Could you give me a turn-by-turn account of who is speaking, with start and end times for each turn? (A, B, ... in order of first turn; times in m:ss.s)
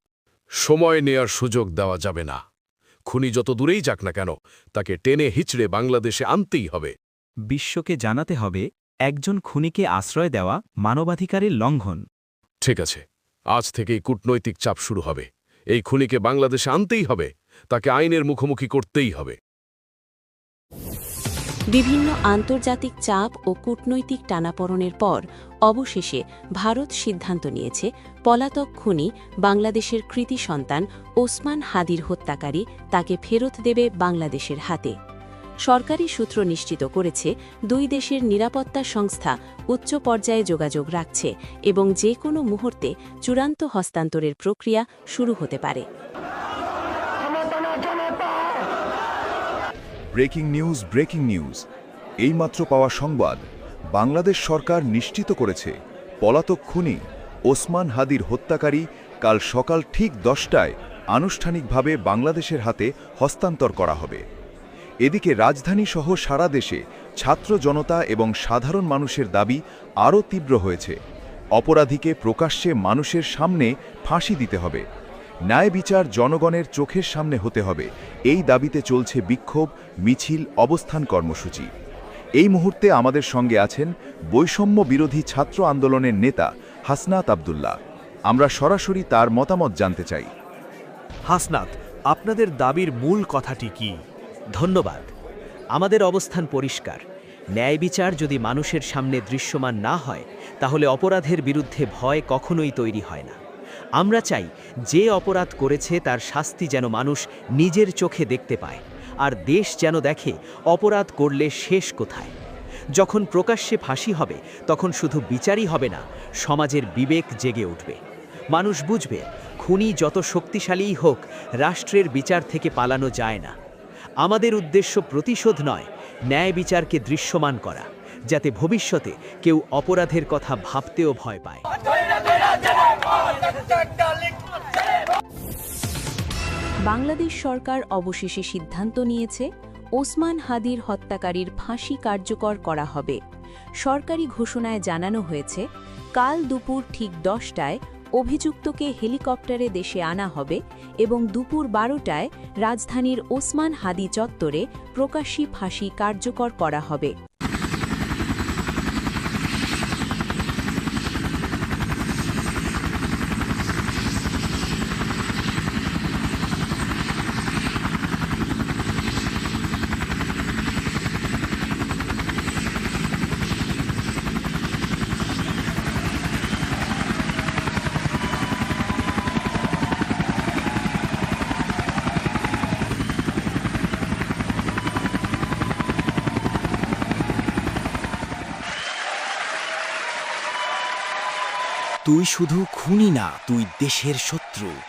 0:00.6-0:02.4 A
0:03.1-0:06.9 A
0:07.5-0:08.5 B
0:09.1-0:11.9 B
0:12.6-0:19.4 A
0:21.7-0:34.9 C
0:35.7-0:45.8 C
0:50.2-0:51.6 D
0:52.2-0:53.4 D
0:53.9-0:57.0 D
0:57.5-1:04.2 D
1:05.0-1:11.0 D
1:11.6-1:14.8 D
1:15.5-1:21.7 D
1:22.4-1:27.7 D
1:28.3-1:30.3 D
1:31.3-1:33.9 B
1:34.5-1:35.1 B
1:35.7-1:37.0 B
1:37.6-1:43.4 B
1:44.0-1:52.3 B
1:53.0-1:58.0 B
1:58.5-2:03.5 B
2:04.2-2:11.6 B
2:16.9-2:19.4 E
2:20.0-2:23.2 E
2:23.8-2:25.6 E
2:26.2-2:37.1 E
3:12.1-3:14.8 F